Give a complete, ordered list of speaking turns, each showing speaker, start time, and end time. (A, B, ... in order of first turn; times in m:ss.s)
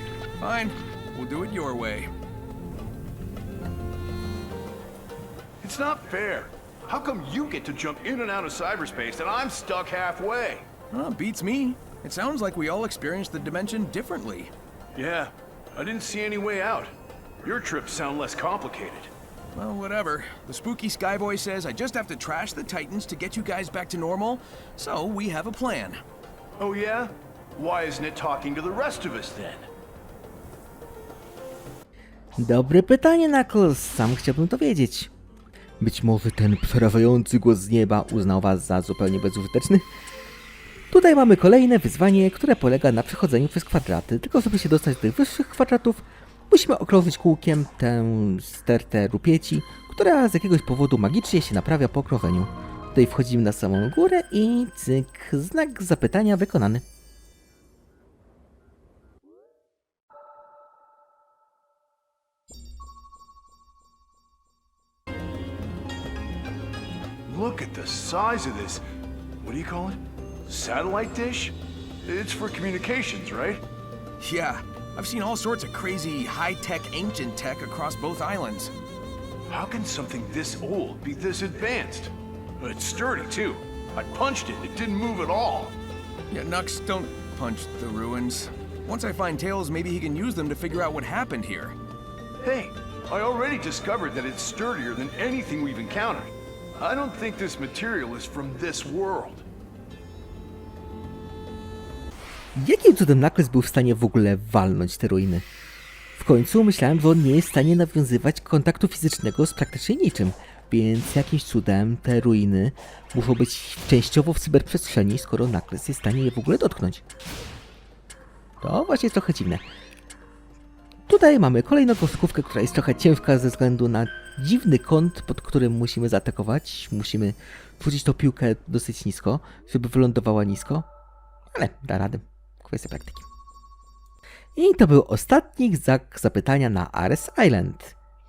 0:00.4-0:02.1 A
0:05.6-0:10.7 B
0:10.9-0:14.5 A
0:15.0-0:19.1 B
0:19.5-0:26.0 A
0:26.6-0:29.7 B
0:32.4-0:35.1 C
0:35.8-0:39.9 C
0:40.9-0:56.8 C
1:07.3-1:08.8 B
1:09.4-1:13.6 B
1:14.2-1:18.7 A
1:19.5-1:25.8 B
1:26.3-1:31.8 A
1:32.4-1:39.5 B
1:42.5-1:45.4 C
1:46.2-1:57.0 C
1:58.6-1:59.6 C
2:01.1-2:10.9 C
2:11.5-2:13.2 C
2:14.6-2:18.0 C